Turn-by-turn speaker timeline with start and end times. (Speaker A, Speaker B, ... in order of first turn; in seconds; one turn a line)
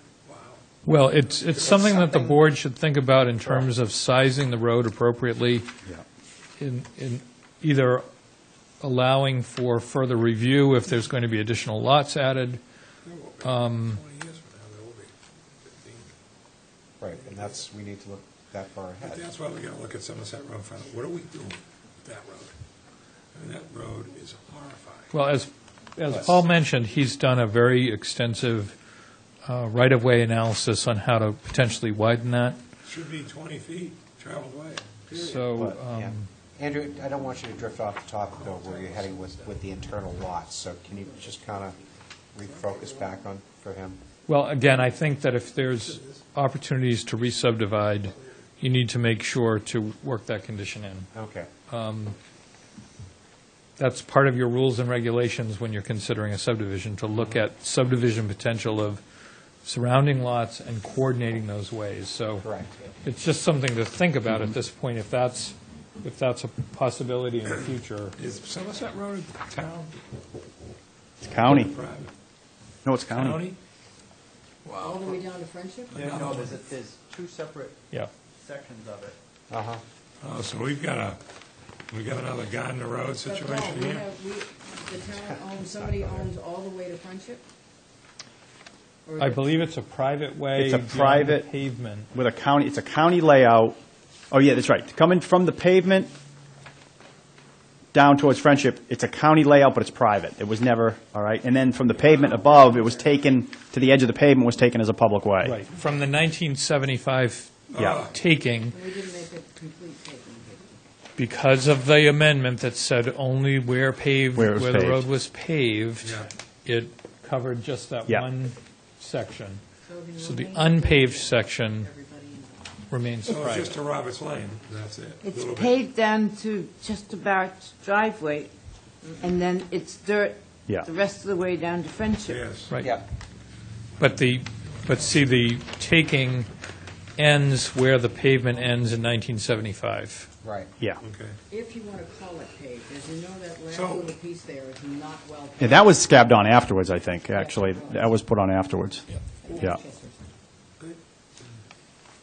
Speaker A: 0.2-0.6
Speaker B: 0.8-5.7
Speaker A: 1.5-1.9
Speaker B: 6.6-8.0
Speaker B: 8.8-12.6
Speaker A: 13.0-15.1
Speaker B: 13.4-14.0
Speaker A: 15.6-16.1
Speaker C: 17.0-19.2
Speaker A: 19.0-22.5
Speaker A: 23.3-25.1
Speaker B: 25.1-28.7
Speaker B: 29.4-32.6
Speaker A: 32.8-35.6
Speaker B: 35.1-36.3
Speaker C: 35.5-41.8
Speaker A: 38.3-39.6
Speaker D: 41.0-41.8
Speaker C: 42.3-44.0
Speaker B: 44.2-51.1
Speaker A: 45.9-46.1
Speaker C: 51.1-51.5
Speaker B: 51.7-52.1
Speaker B: 53.8-59.0
Speaker B: 59.6-62.5
Speaker C: 62.4-62.7
Speaker B: 63.0-68.2
Speaker A: 68.2-69.9
Speaker E: 71.2-71.7
Speaker A: 71.4-72.1
Speaker E: 72.8-73.5
Speaker A: 73.1-73.6
Speaker A: 74.6-75.1
Speaker D: 74.7-76.2
Speaker F: 75.9-77.7
Speaker A: 76.0-76.6
Speaker F: 78.4-79.1
Speaker C: 79.5-79.8
Speaker A: 80.2-81.2
Speaker A: 81.9-84.1
Speaker D: 83.2-87.4
Speaker D: 89.0-89.5
Speaker B: 89.2-92.1
Speaker E: 90.5-91.5
Speaker E: 92.1-93.8
Speaker E: 94.3-96.1
Speaker E: 97.9-105.6
Speaker D: 102.5-103.0
Speaker B: 105.4-108.8
Speaker A: 107.7-108.1
Speaker E: 107.8-108.0
Speaker D: 108.7-110.8
Speaker B: 111.2-119.6
Speaker E: 114.3-115.1
Speaker A: 116.0-116.3
Speaker D: 119.8-122.8
Speaker B: 120.2-121.9
Speaker B: 122.9-123.8
Speaker A: 123.2-125.8
Speaker G: 125.2-128.5
Speaker G: 129.2-132.4
Speaker A: 132.2-132.7
Speaker B: 132.7-132.9
Speaker B: 134.0-136.5
Speaker B: 137.2-140.3
Speaker C: 140.4-140.7
Speaker A: 141.0-141.4
Speaker D: 141.5-146.1
Speaker A: 143.7-144.1
Speaker E: 145.6-149.1
Speaker D: 147.3-148.2
Speaker D: 149.4-150.1